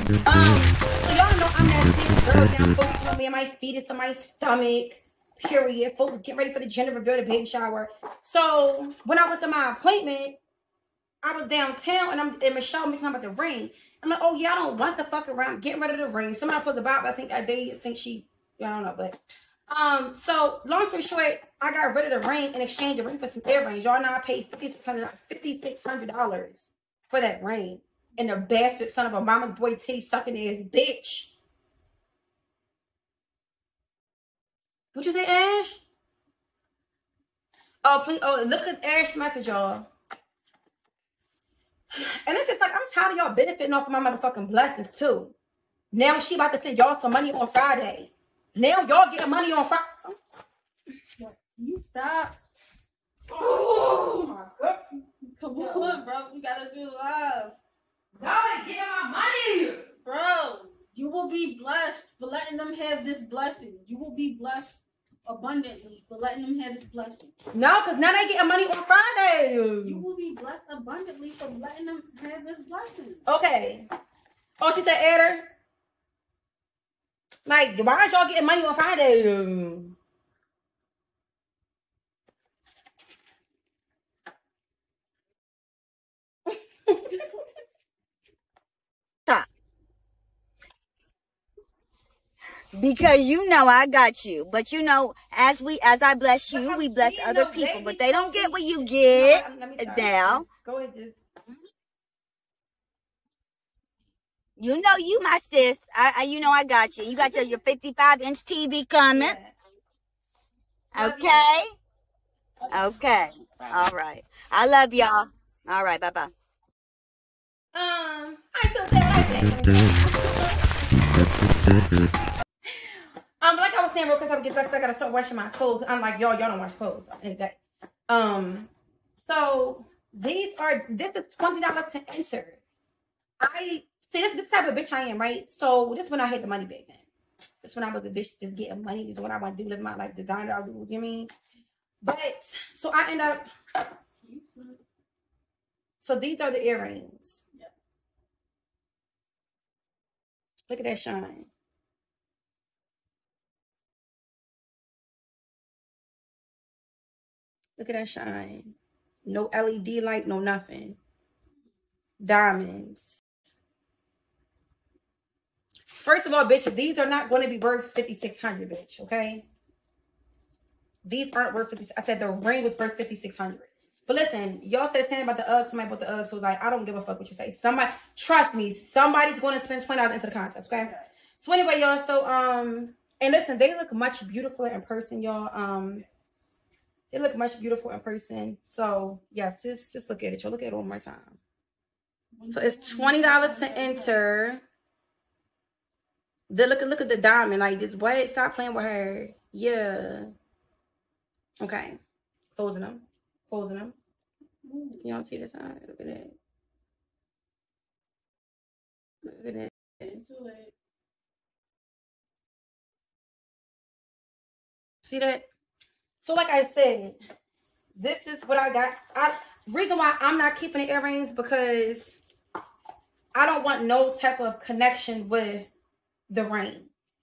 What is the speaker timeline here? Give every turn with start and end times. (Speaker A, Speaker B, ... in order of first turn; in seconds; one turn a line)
Speaker A: 0.2-10.4
Speaker A: 11.2-19.2
Speaker A: 19.7-31.3
Speaker A: 34.9-35.9
Speaker A: 37.8-39.9
Speaker A: 41.9-45.4
Speaker A: 45.9-50.2
Speaker B: 51.2-52.4
Speaker A: 53.3-54.8
Speaker B: 55.4-57.6
Speaker A: 55.6-56.0
Speaker A: 58.2-59.9
Speaker B: 60.0-67.3
Speaker A: 67.5-70.0
Speaker B: 69.8-73.2
Speaker A: 73.3-73.9
Speaker A: 74.6-75.5
Speaker A: 77.5-80.0
Speaker A: 86.9-87.2
Speaker C: 92.7-100.5
Speaker A: 96.5-101.2
Speaker C: 104.6-109.4
Speaker A: 109.1-109.6
Speaker C: 110.9-111.7
Speaker A: 111.0-111.5
Speaker C: 112.7-116.3
Speaker A: 113.5-113.9
Speaker A: 117.7-121.8
Speaker A: 123.4-127.6
Speaker A: 128.1-132.6
Speaker A: 133.4-137.0
Speaker A: 137.6-141.3
Speaker A: 142.0-143.4
Speaker B: 144.2-144.8
Speaker A: 146.0-147.4
Speaker B: 147.5-147.8
Speaker A: 150.7-151.5
Speaker A: 157.8-161.0
Speaker A: 162.2-163.2
Speaker A: 165.9-169.5
Speaker A: 171.0-186.0
Speaker A: 187.1-191.4
Speaker B: 192.3-194.2
Speaker A: 192.5-194.6
Speaker A: 196.5-200.3
Speaker A: 201.6-202.0
Speaker A: 202.6-204.0
Speaker B: 204.6-205.1
Speaker A: 205.0-206.4
Speaker A: 209.2-210.1
Speaker B: 210.1-210.7
Speaker A: 215.0-215.5
Speaker A: 216.2-217.2
Speaker A: 218.0-222.2
Speaker A: 223.3-225.8
Speaker A: 226.3-226.9